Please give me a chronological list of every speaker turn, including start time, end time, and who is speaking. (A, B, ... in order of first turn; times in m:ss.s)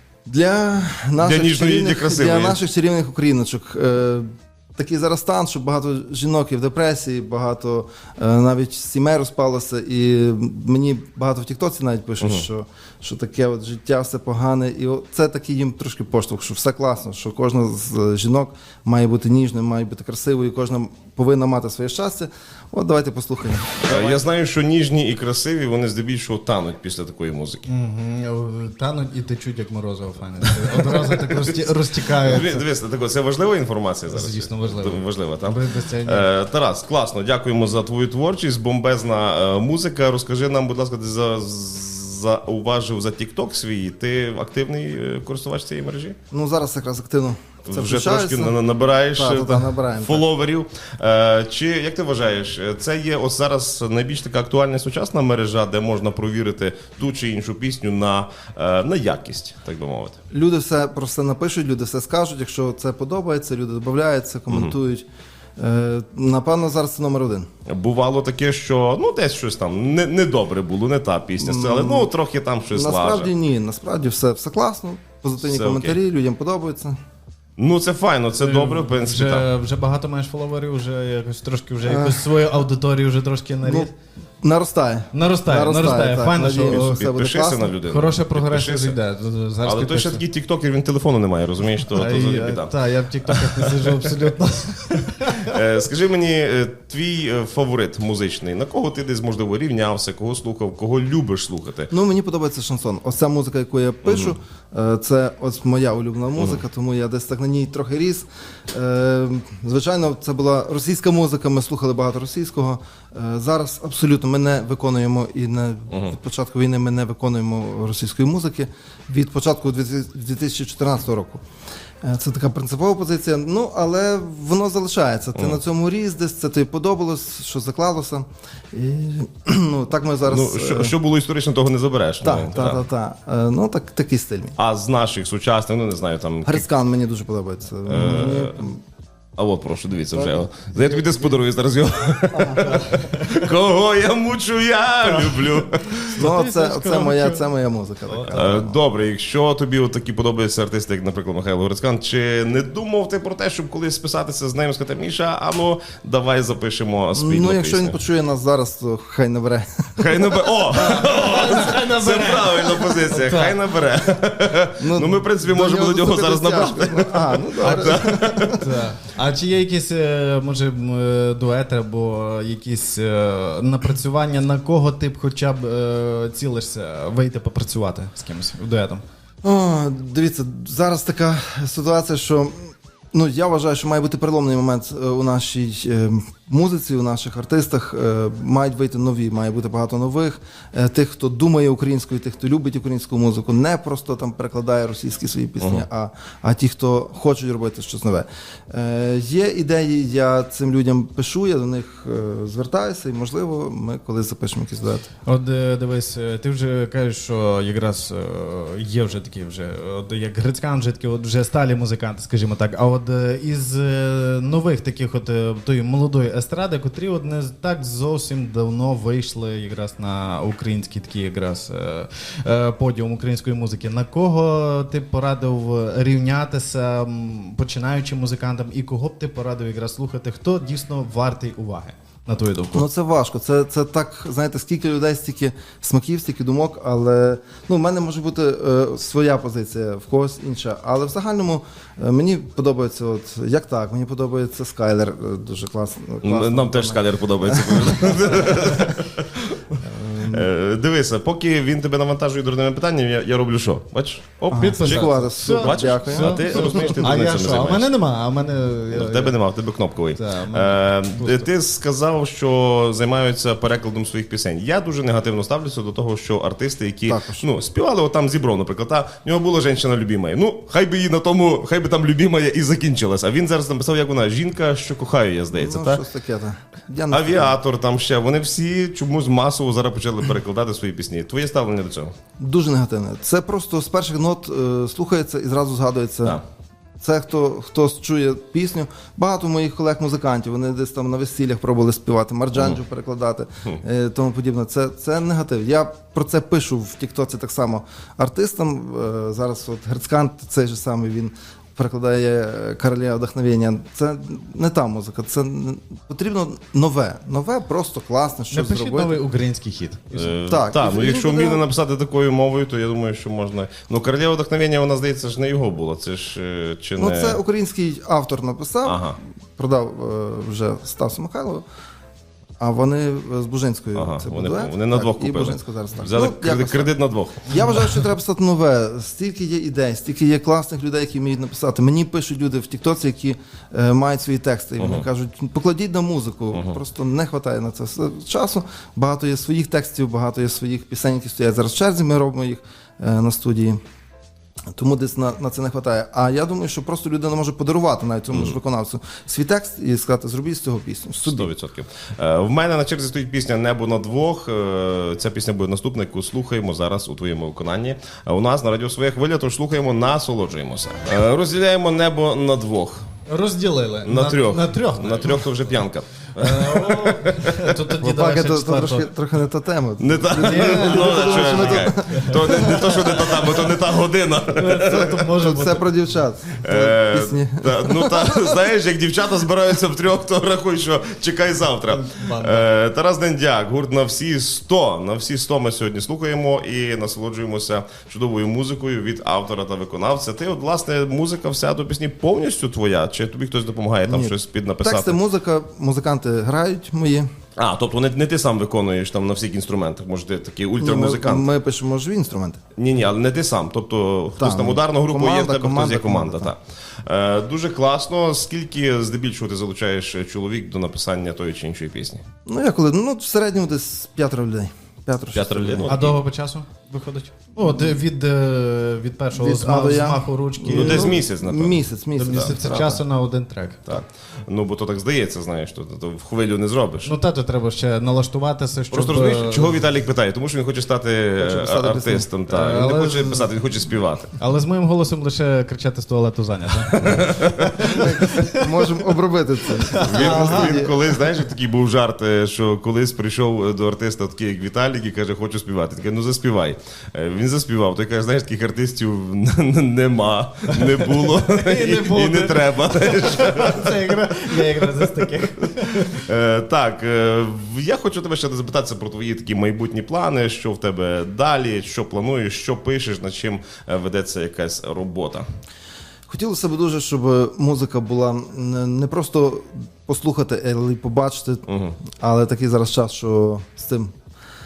0:00.2-0:24.2 A
0:01.2-0:02.6 B
0:12.2-0:12.5 B
0:23.8-0:27.6 B
0:27.7-0:32.6 C
0:32.2-0:46.2 B
0:34.1-0:36.3 C
0:46.3-0:48.6 A
0:47.7-1:00.2 B
0:49.1-0:50.2 A
1:00.3-1:05.0 A
1:04.5-1:04.7 B
1:05.6-1:07.5 A
1:07.7-1:13.3 B
1:11.4-1:12.1 A
1:12.7-1:17.0 A
1:15.4-1:16.0 B
1:17.6-1:19.5 B
1:18.4-1:23.9 C
1:21.8-1:22.3 A
1:23.6-1:23.9 A
1:24.4-1:27.8 A
1:25.1-1:27.0 C
1:26.6-1:29.0 B
1:27.8-1:30.2 C
1:29.6-1:32.7 B
1:31.9-1:35.6 C
1:33.3-1:34.1 B
1:35.4-1:41.9 B
1:41.9-2:01.4 A
1:44.1-1:44.3 B
1:55.9-1:56.2 B
2:02.0-2:11.0 A
2:10.3-2:12.8 B
2:12.2-2:14.5 A
2:14.6-2:16.7 B
2:16.4-2:18.8 A
2:17.9-2:18.6 B
2:19.4-2:26.2 B
2:20.1-2:21.4 A
2:22.3-2:22.8 A
2:22.7-2:23.2 C
2:25.2-2:27.5 C
2:26.2-2:28.8 A
2:28.1-2:28.5 C
2:28.3-2:38.0 B
2:37.2-2:40.5 A
2:40.0-2:48.7 B
2:40.7-2:43.6 C
2:44.8-2:48.6 A
2:47.6-2:59.0 C
2:59.4-3:25.1 A
3:15.6-3:15.8 B
3:25.3-3:52.8 C
3:52.7-4:08.9 A
4:06.2-4:17.9 B
4:09.8-4:10.5 A
4:14.5-4:17.0 A
4:14.5-4:19.4 C
4:18.9-4:36.0 B
4:20.1-4:21.5 C
4:27.1-4:27.5 A
4:35.5-4:37.6 A
4:37.1-4:42.1 B
4:42.4-4:46.4 A
4:47.0-5:09.2 A
4:52.5-4:52.8 B
5:08.5-5:10.4 C
5:10.1-5:17.4 B
5:10.4-5:11.6 A
5:17.0-5:21.6 A
5:18.8-5:19.2 B
5:22.6-5:43.8 A
5:24.0-5:27.5 B
5:27.5-5:28.0 C
5:34.8-5:35.1 B
5:36.5-5:36.8 B
5:44.7-5:51.5 A
5:48.3-5:48.6 B
5:51.2-6:03.0 B
6:03.3-6:05.8 C
6:04.0-6:07.7 B
6:06.4-6:09.1 C
6:08.0-6:12.4 A
6:10.0-6:15.2 B
6:10.4-6:13.8 C
6:14.5-6:15.9 C
6:15.3-6:18.6 A
6:16.6-6:35.2 B
6:21.9-6:22.6 C
6:34.1-6:37.3 A
6:37.6-6:41.5 B
6:40.8-6:42.6 A
6:42.8-6:52.2 B
6:44.4-6:46.5 A
6:52.5-6:55.9 A
6:55.3-6:56.2 B
6:55.9-7:01.2 C
6:57.6-6:58.0 A
6:59.3-7:03.0 A
7:00.7-7:03.0 B
7:02.2-7:03.9 C
7:03.9-7:07.1 B
7:07.0-7:09.8 C
7:08.9-7:14.4 B
7:11.4-7:12.3 A
7:12.5-7:13.5 C
7:14.4-7:18.7 C
7:17.0-7:18.0 B
7:17.9-7:21.0 A
7:19.9-7:20.8 C
7:20.0-7:34.9 B
7:31.0-7:36.2 C
7:35.8-7:45.5 B
7:46.3-7:51.6 A
7:51.7-7:52.0 B
7:52.2-7:54.1 A